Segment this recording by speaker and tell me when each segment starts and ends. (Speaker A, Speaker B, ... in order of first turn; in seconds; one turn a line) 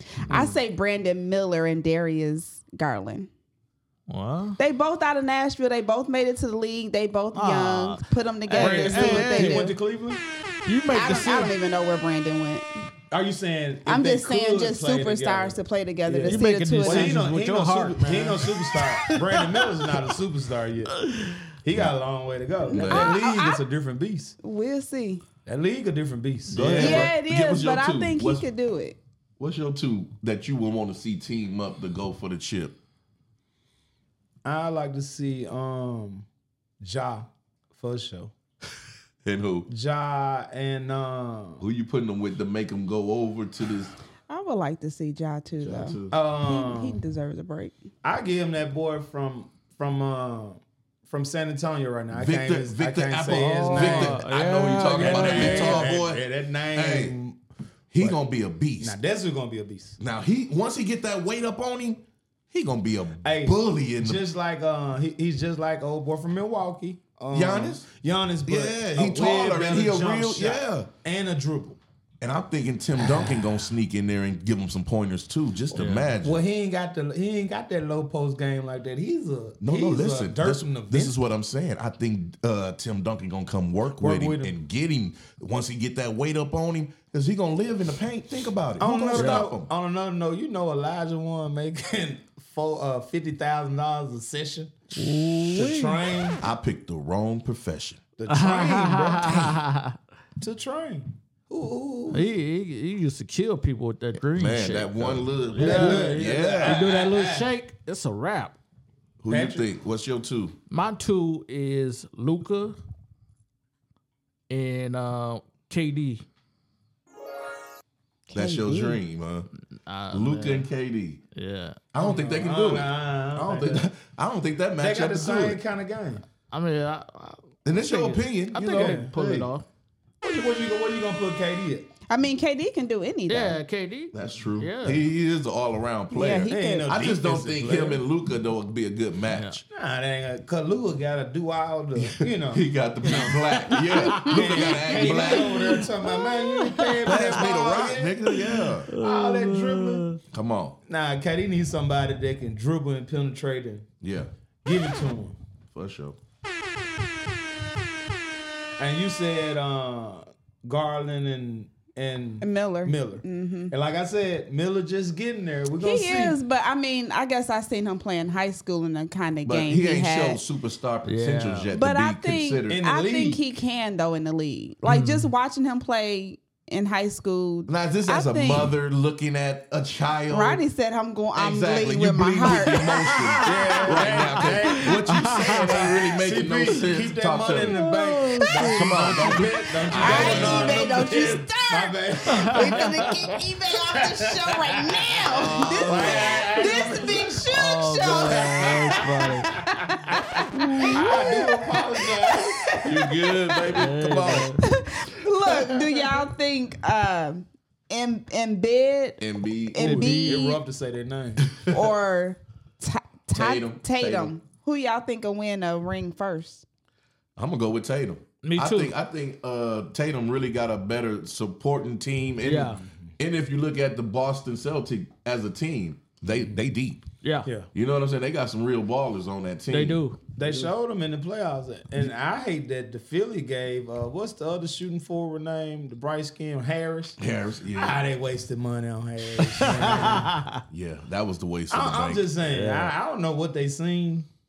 Speaker A: 0.2-3.3
Speaker B: 4.1-4.6
Speaker A: 4.6-9.8
Speaker B: 7.3-9.7
Speaker C: 8.6-10.2
Speaker B: 10.7-11.5
Speaker A: 10.9-12.8
Speaker C: 13.1-21.0
Speaker A: 13.8-17.2
Speaker B: 16.3-20.1
Speaker B: 21.0-21.4
Speaker C: 21.6-24.3
Speaker A: 22.7-23.6
Speaker D: 22.7-23.1
Speaker A: 24.4-25.2
Speaker C: 25.4-27.1
Speaker D: 26.5-28.4
Speaker A: 26.8-29.0
Speaker D: 29.4-32.7
Speaker C: 34.4-36.2
Speaker C: 36.8-38.3
Speaker D: 39.2-39.7
Speaker C: 39.7-41.6
Speaker D: 41.6-43.9
Speaker A: 44.3-47.7
Speaker D: 45.6-46.2
Speaker C: 46.1-47.0
Speaker C: 48.0-57.4
Speaker D: 52.1-57.1
Speaker B: 53.5-56.0
Speaker D: 57.9-59.0
Speaker C: 58.8-60.0
Speaker D: 60.0-64.2
Speaker C: 63.2-71.8
Speaker D: 67.3-67.9
Speaker D: 68.5-70.9
Speaker D: 72.2-76.4
Speaker C: 73.0-73.5
Speaker B: 75.7-76.1
Speaker C: 76.2-81.1
Speaker D: 79.6-89.7
Speaker C: 84.0-84.5
Speaker C: 88.8-94.7
Speaker B: 89.1-89.5
Speaker B: 94.9-96.0
Speaker C: 95.4-96.4
Speaker D: 96.4-98.0
Speaker C: 98.2-99.6
Speaker B: 98.3-100.0
Speaker C: 100.4-102.3
Speaker B: 102.1-108.6
Speaker D: 104.2-106.9
Speaker C: 105.6-107.5
Speaker D: 109.2-110.5
Speaker C: 109.3-109.7
Speaker B: 110.7-112.8
Speaker B: 114.5-116.2
Speaker A: 118.3-119.0
Speaker D: 118.3-119.5
Speaker B: 119.8-120.7
Speaker D: 120.1-121.2
Speaker B: 121.3-121.9
Speaker D: 121.9-125.6
Speaker C: 122.0-123.9
Speaker C: 124.8-126.2
Speaker B: 126.5-129.6
Speaker D: 127.6-129.5
Speaker C: 128.6-129.1
Speaker C: 130.2-131.9
Speaker A: 132.1-133.6
Speaker B: 133.3-135.0
Speaker D: 134.1-139.6
Speaker A: 136.1-136.9
Speaker C: 136.5-138.0
Speaker B: 139.3-139.6
Speaker C: 139.7-148.2
Speaker D: 142.0-145.8
Speaker B: 143.9-147.6
Speaker D: 147.0-148.9
Speaker B: 148.2-150.2
Speaker C: 149.0-150.1
Speaker D: 150.3-150.8
Speaker C: 150.9-153.8
Speaker D: 154.0-154.3
Speaker C: 154.6-155.4
Speaker D: 155.7-156.2
Speaker C: 158.8-166.4
Speaker A: 162.4-163.7
Speaker A: 165.8-170.4
Speaker D: 169.4-172.8
Speaker B: 171.1-171.7
Speaker A: 171.7-178.7
Speaker C: 172.7-173.4
Speaker B: 174.8-175.3
Speaker D: 177.7-180.6
Speaker A: 180.3-183.0
Speaker D: 181.3-187.8
Speaker B: 182.7-185.9
Speaker C: 183.4-195.0
Speaker B: 187.5-189.5
Speaker D: 188.6-191.1
Speaker A: 189.9-198.9
Speaker B: 190.0-190.5
Speaker B: 192.5-192.8
Speaker D: 195.3-196.6
Speaker B: 195.5-196.4
Speaker C: 195.8-197.4
Speaker B: 197.5-199.9
Speaker C: 198.0-200.2
Speaker A: 200.5-203.6
Speaker C: 200.8-202.8
Speaker D: 202.8-204.6
Speaker B: 203.7-204.6
Speaker A: 204.6-210.6
Speaker D: 209.2-210.1
Speaker B: 209.8-210.6
Speaker C: 210.2-211.5
Speaker D: 211.5-211.9
Speaker A: 211.7-216.6
Speaker D: 213.3-214.3
Speaker D: 217.4-227.1
Speaker B: 218.4-218.9
Speaker B: 222.4-222.8
Speaker B: 227.2-227.5
Speaker D: 227.7-230.0
Speaker B: 229.7-230.6
Speaker C: 230.3-237.2
Speaker D: 237.2-237.9
Speaker C: 237.7-240.4
Speaker B: 239.4-240.6
Speaker D: 240.7-242.3
Speaker C: 241.7-244.3
Speaker B: 242.5-242.9